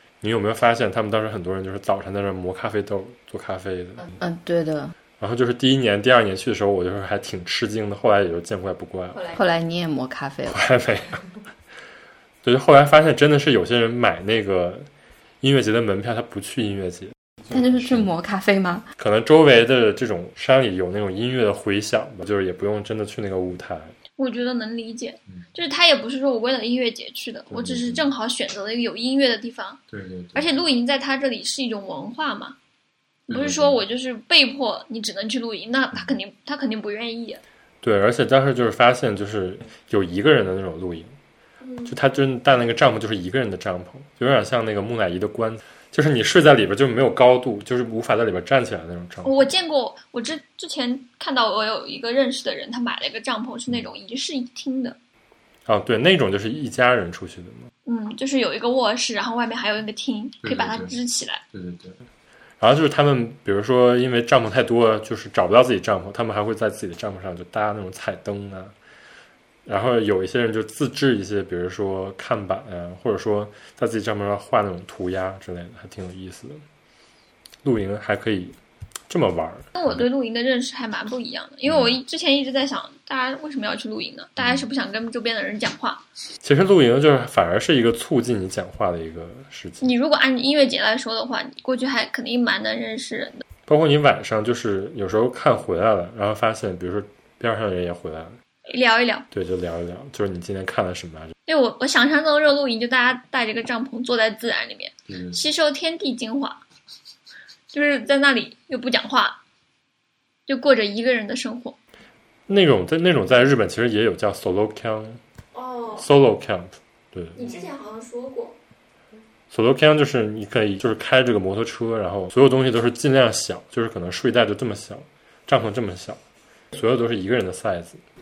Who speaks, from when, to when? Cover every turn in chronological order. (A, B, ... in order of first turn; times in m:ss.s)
0:00.2-0:04.1 A
0:04.2-0:04.9 B
0:05.2-0:09.3 A
0:09.2-0:10.6 B
0:10.5-0:11.2 A
0:12.4-0:14.9 A
0:15.4-0:18.1 A
0:17.5-0:18.9 B
0:19.0-0:23.9 A
0:24.2-0:29.8 C
0:27.5-0:28.1 A
0:29.9-0:30.5 A
0:30.3-0:32.6 C
0:33.3-0:37.4 C
0:33.3-0:33.8 A
0:37.8-0:41.1 A
0:41.6-0:41.9 D
0:41.8-0:49.5 A
0:49.2-0:55.0 C
0:55.6-0:57.7 A
0:57.8-1:01.4 C
1:00.4-1:00.9 A
1:01.5-1:02.0 A
1:02.6-1:08.7 A
1:09.6-1:16.6 A
1:17.6-1:18.6 A
1:19.1-1:20.0 A
1:19.7-1:26.0 C
1:21.7-1:22.0 A
1:24.4-1:24.6 A
1:26.4-1:29.9 A
1:29.8-1:33.4 C
1:33.7-1:38.4 A
1:38.7-1:39.3 C
1:39.3-1:41.3 A
1:41.5-1:46.6 C
1:45.1-1:45.4 A
1:47.7-1:49.4 C
1:50.5-1:51.8 C
1:52.5-1:55.2 A
1:55.5-1:56.1 D
1:55.9-1:57.6 A
1:57.4-1:58.6 D
1:59.5-2:06.2 A
2:06.7-2:08.0 A